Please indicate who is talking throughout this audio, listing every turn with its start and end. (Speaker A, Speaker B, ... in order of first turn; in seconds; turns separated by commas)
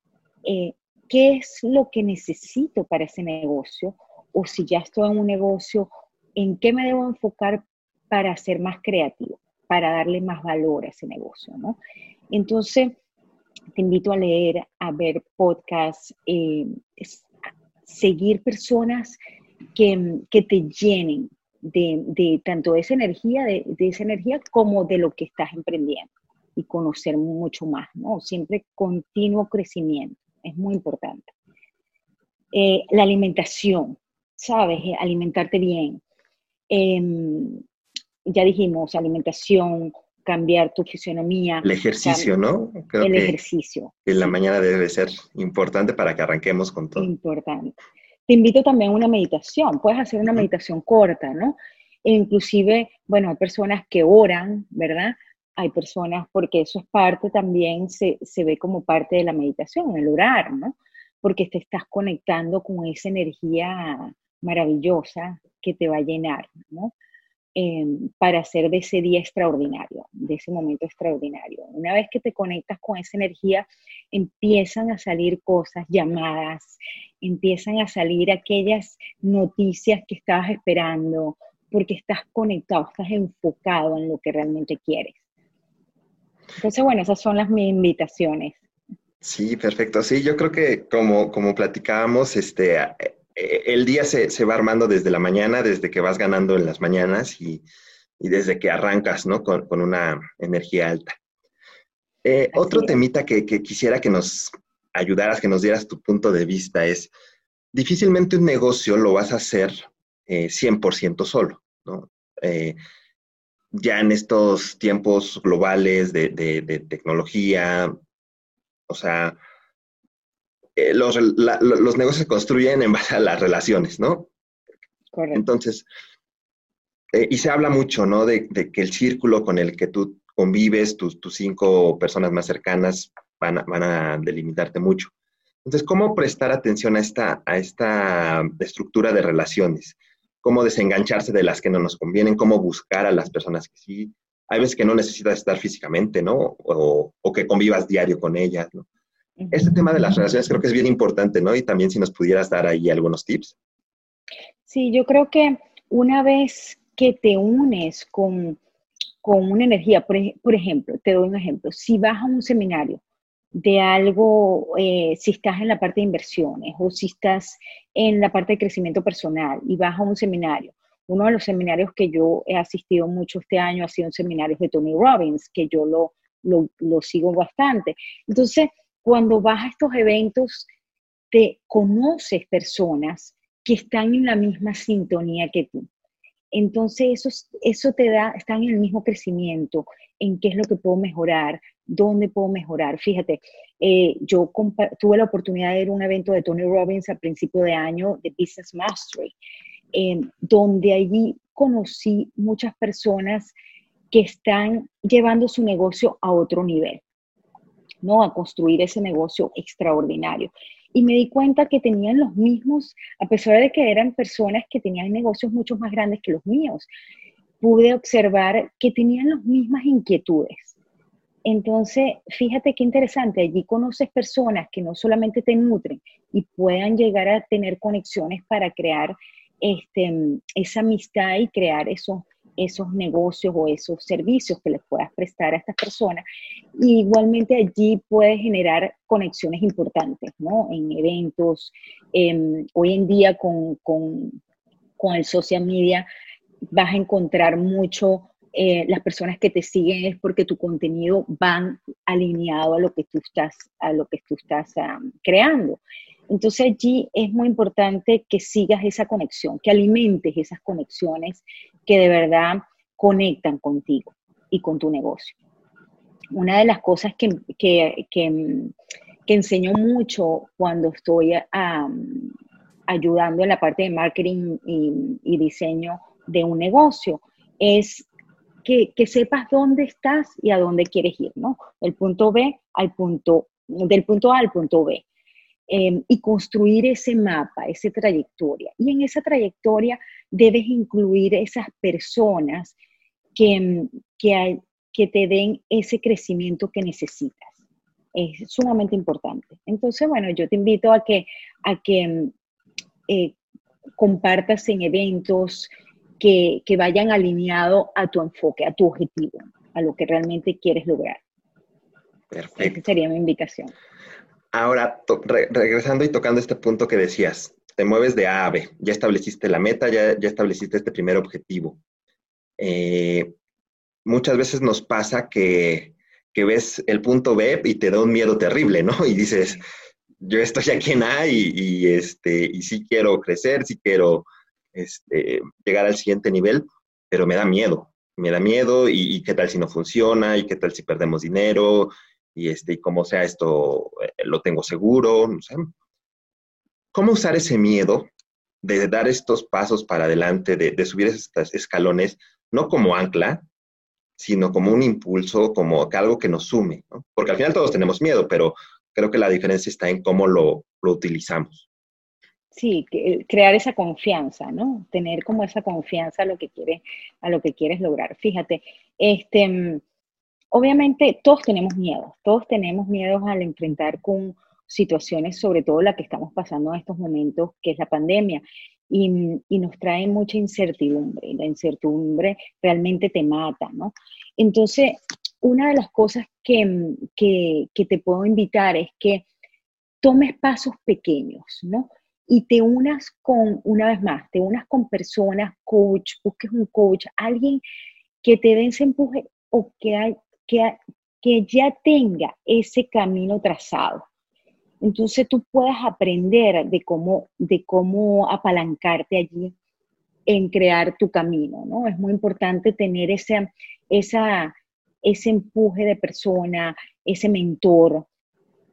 Speaker A: 0.5-11.8, Speaker A: 12.3-13.0, Speaker A: 13.8-17.3, Speaker A: 17.9-19.2, Speaker A: 19.8-31.3, Speaker A: 32.5-36.0, Speaker A: 36.7-37.6, Speaker A: 38.3-42.3, Speaker B: 41.6-43.4, Speaker A: 43.0-44.0, Speaker B: 44.1-47.1, Speaker A: 47.0-47.8, Speaker A: 48.3-66.9, Speaker A: 67.5-85.2, Speaker A: 86.6-88.6, Speaker B: 89.2-97.6, Speaker B: 98.2-101.2, Speaker B: 102.2-107.1, Speaker A: 102.5-103.0, Speaker B: 107.7-112.8, Speaker B: 113.7-117.9, Speaker B: 118.9-119.4, Speaker B: 120.8-124.3, Speaker A: 125.1-125.4, Speaker B: 125.3-125.9, Speaker B: 127.1-135.1, Speaker B: 135.7-148.9, Speaker B: 149.5-153.6, Speaker A: 154.7-158.6, Speaker A: 159.2-163.0, Speaker A: 163.5-180.7, Speaker A: 181.3-185.8, Speaker A: 186.5-199.3, Speaker A: 199.9-203.5, Speaker A: 204.1-207.0, Speaker A: 208.0-216.9, Speaker A: 217.6-220.8, Speaker A: 221.4-236.2, Speaker A: 236.8-244.4, Speaker A: 245.0-246.1, Speaker A: 246.7-265.4, Speaker A: 266.3-268.7, Speaker A: 269.3-272.3, Speaker A: 272.9-278.1, Speaker A: 278.6-285.0, Speaker A: 285.7-292.8, Speaker A: 293.4-297.6, Speaker A: 298.1-302.3, Speaker A: 303.1-303.4, Speaker A: 304.0-311.2, Speaker B: 312.3-312.9, Speaker A: 312.6-313.7, Speaker B: 314.5-321.8, Speaker B: 322.6-323.3, Speaker B: 324.1-329.6, Speaker B: 330.2-345.7, Speaker B: 346.9-348.1, Speaker B: 348.6-353.4, Speaker B: 354.2-361.7, Speaker A: 362.5-369.8, Speaker A: 370.5-389.2, Speaker A: 390.0-397.6, Speaker A: 398.2-404.1, Speaker A: 404.8-409.6, Speaker A: 410.3-418.1